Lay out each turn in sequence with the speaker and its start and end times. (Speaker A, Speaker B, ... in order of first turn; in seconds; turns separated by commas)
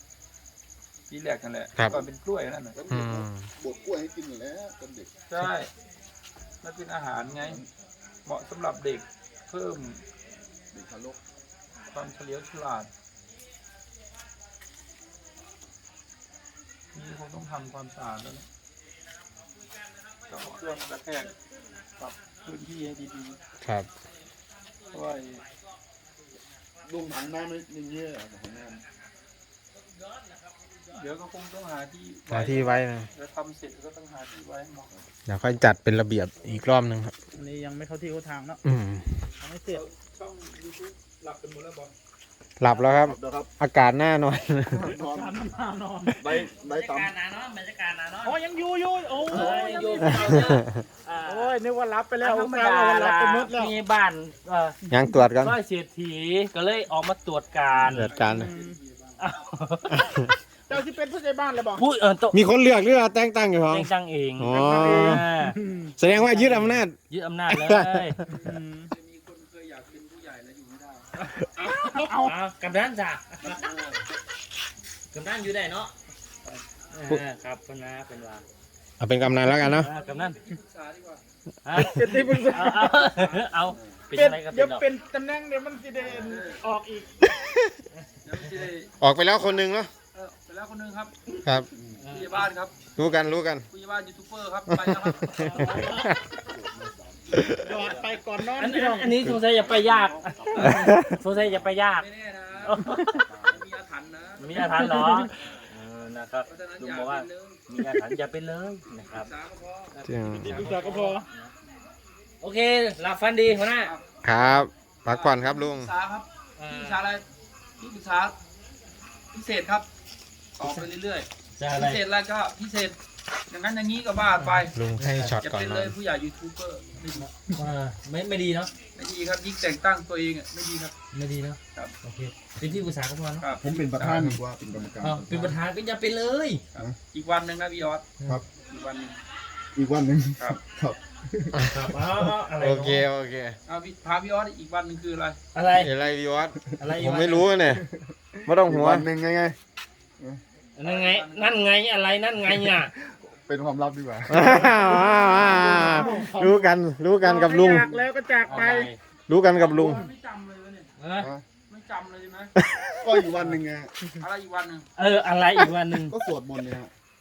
Speaker A: 1.1-2.8, Speaker B: 1.8-2.0, Speaker C: 2.7-5.1, Speaker B: 2.9-3.5, Speaker A: 5.3-5.7, Speaker A: 6.6-7.6, Speaker C: 7.3-7.7, Speaker A: 8.2-10.0, Speaker C: 10.7-11.2, Speaker A: 11.9-12.9, Speaker A: 16.9-18.5, Speaker A: 20.3-21.3, Speaker A: 22.0-23.4, Speaker B: 23.6-23.9, Speaker A: 24.9-25.4, Speaker C: 26.8-28.8, Speaker A: 30.9-34.9, Speaker B: 32.3-33.1, Speaker B: 35.3-37.1, Speaker D: 37.4-38.6, Speaker B: 38.6-39.1, Speaker D: 39.4-39.8, Speaker A: 39.7-41.9, Speaker B: 42.6-44.9, Speaker C: 42.8-43.5, Speaker C: 44.7-45.4, Speaker D: 44.8-46.2, Speaker C: 46.2-47.1, Speaker E: 46.2-48.4, Speaker D: 48.2-50.4, Speaker E: 49.3-51.5, Speaker C: 49.3-50.0, Speaker A: 49.7-50.0, Speaker B: 50.2-50.6, Speaker D: 51.2-53.7, Speaker E: 52.2-54.8, Speaker B: 54.9-55.6, Speaker E: 55.4-58.1, Speaker A: 57.7-59.2, Speaker B: 57.9-58.5, Speaker D: 58.3-58.8, Speaker E: 59.2-60.1, Speaker D: 60.7-61.9, Speaker E: 61.8-62.4, Speaker B: 62.3-65.2, Speaker E: 63.7-68.2, Speaker D: 64.5-65.9, Speaker B: 66.0-67.0, Speaker B: 67.5-68.0, Speaker D: 68.3-68.9, Speaker A: 68.5-71.2, Speaker D: 71.6-72.3, Speaker E: 72.1-73.6, Speaker A: 73.4-74.0, Speaker E: 75.1-75.9, Speaker A: 76.4-76.7, Speaker E: 76.9-78.4, Speaker B: 79.0-79.9, Speaker A: 79.3-81.2, Speaker E: 79.8-80.4, Speaker E: 81.6-84.8, Speaker D: 81.8-83.0, Speaker A: 83.2-83.7, Speaker C: 83.7-84.0, Speaker D: 84.1-87.2, Speaker A: 86.0-86.7, Speaker B: 87.2-87.5, Speaker A: 88.2-88.9, Speaker B: 89.0-89.9, Speaker A: 90.1-91.2, Speaker B: 91.4-91.7, Speaker C: 91.7-92.0, Speaker E: 92.0-92.5, Speaker A: 92.1-92.8, Speaker B: 93.0-93.7, Speaker A: 93.7-95.6, Speaker B: 94.7-96.1, Speaker D: 95.5-96.1, Speaker C: 95.6-98.0, Speaker B: 97.3-97.7, Speaker D: 97.5-99.4, Speaker A: 97.7-98.2, Speaker E: 98.5-102.0, Speaker C: 99.5-101.7, Speaker A: 100.4-100.7, Speaker B: 100.7-101.1, Speaker A: 101.9-102.8, Speaker E: 102.7-103.2, Speaker C: 102.7-103.7, Speaker A: 103.4-104.8, Speaker E: 104.4-109.3, Speaker D: 104.8-105.1, Speaker A: 106.5-107.6, Speaker A: 109.0-110.8, Speaker E: 109.9-111.5, Speaker B: 110.0-110.7, Speaker D: 110.3-111.2, Speaker E: 112.4-113.9, Speaker A: 113.8-117.2, Speaker B: 114.2-115.9, Speaker E: 116.6-117.0, Speaker A: 117.8-118.3, Speaker A: 119.3-119.9, Speaker A: 120.6-123.0, Speaker E: 121.5-122.0, Speaker A: 123.5-124.8, Speaker B: 124.6-126.0, Speaker E: 125.0-125.4, Speaker A: 125.4-127.3, Speaker E: 127.1-128.7, Speaker A: 128.9-130.9, Speaker E: 131.1-133.5, Speaker A: 133.4-134.4, Speaker C: 133.6-135.6, Speaker E: 135.0-136.6, Speaker A: 136.7-139.2, Speaker C: 139.7-141.6, Speaker B: 141.6-141.9, Speaker E: 141.7-143.0, Speaker B: 142.6-143.6, Speaker A: 143.7-145.4, Speaker E: 145.5-145.9, Speaker B: 145.8-147.8, Speaker E: 146.8-147.5, Speaker C: 147.7-149.6, Speaker B: 148.4-149.1, Speaker E: 150.8-152.9, Speaker A: 150.8-151.7, Speaker C: 152.7-156.1, Speaker B: 154.3-157.9, Speaker A: 154.5-156.3, Speaker D: 154.9-158.9, Speaker E: 158.4-159.0, Speaker B: 159.3-160.1, Speaker A: 159.5-160.9, Speaker E: 161.0-161.3, Speaker A: 161.6-162.5, Speaker B: 162.6-163.1, Speaker C: 163.0-163.9, Speaker A: 164.2-164.9, Speaker E: 165.0-166.2, Speaker C: 166.0-166.9